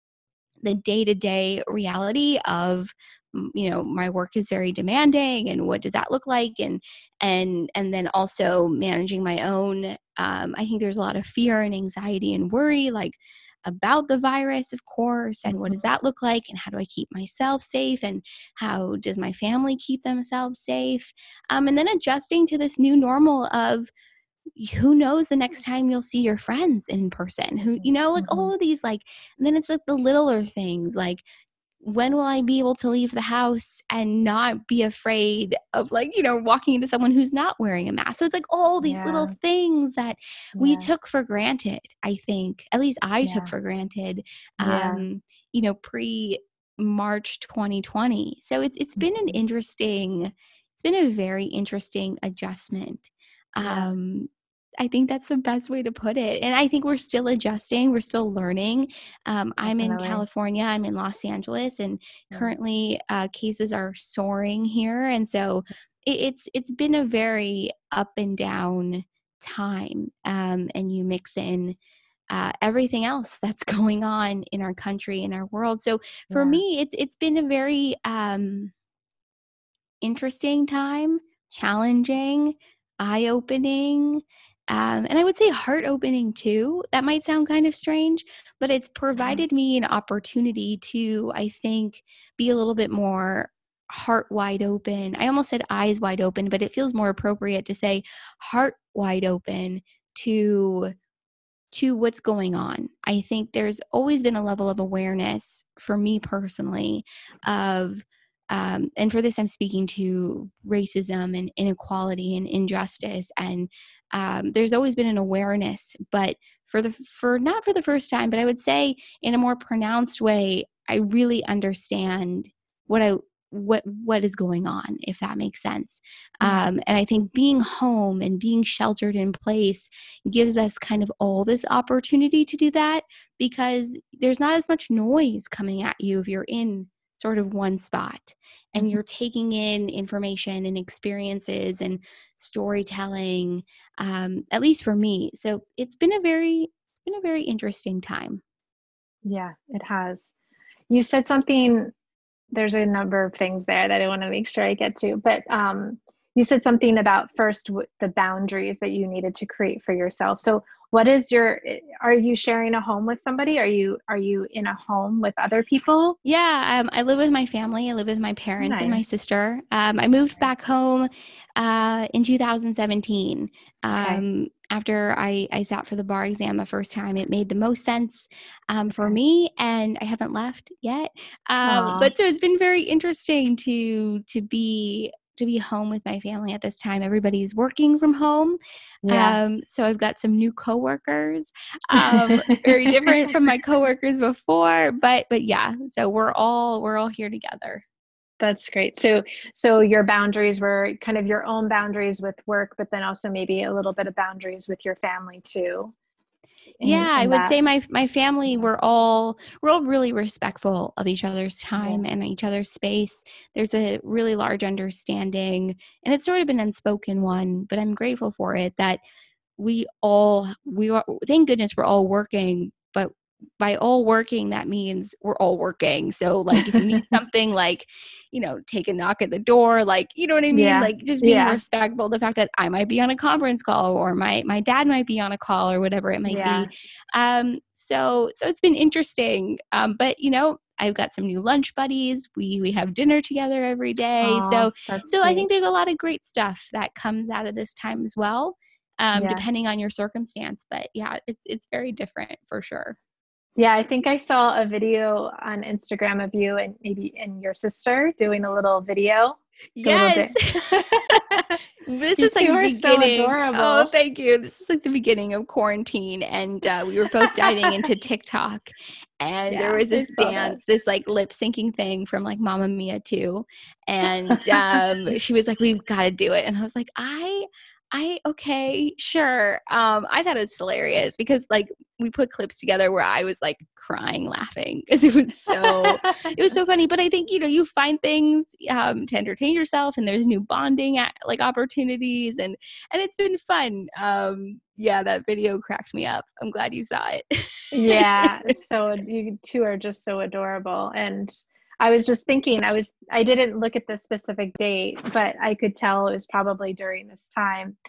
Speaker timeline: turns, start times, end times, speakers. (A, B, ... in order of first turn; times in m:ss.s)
0:00.6-0:23.9 A
0:15.4-0:15.9 B
0:24.5-0:31.2 A
0:27.8-0:28.5 B
0:31.8-0:54.3 A
0:38.8-0:39.4 B
0:40.6-0:40.9 B
0:43.2-0:43.5 B
0:44.6-0:45.0 B
0:49.0-0:49.4 B
0:53.6-0:53.9 B
0:54.8-1:11.8 A
0:59.6-1:00.2 B
1:02.3-1:02.6 B
1:12.3-1:18.7 A
1:16.3-1:16.6 B
1:20.0-1:40.9 A
1:29.1-1:29.4 B
1:41.7-2:28.4 A
2:06.4-2:06.7 B
2:29.2-2:30.3 B
2:30.9-2:31.9 B
2:32.5-2:46.2 B
2:46.2-3:08.6 A
2:48.6-2:49.0 B
2:54.0-2:54.2 B
3:01.6-3:02.1 B
3:09.0-3:09.4 B
3:09.1-3:17.8 A
3:11.9-3:13.3 B
3:18.4-3:25.9 B
3:26.8-3:27.5 B
3:26.8-3:39.0 A
3:31.8-3:32.0 B
3:39.6-4:13.0 A
3:46.5-3:47.1 B
3:50.5-3:51.6 B
3:56.2-3:56.7 B
4:04.2-4:05.4 B
4:09.1-4:09.4 B
4:13.6-4:21.6 B
4:19.8-4:57.2 A
4:22.2-4:23.9 B
4:27.2-4:27.9 B
4:29.5-4:30.6 B
4:34.3-4:34.8 B
4:45.5-4:46.3 B
4:57.7-5:07.8 B
4:57.9-4:58.3 A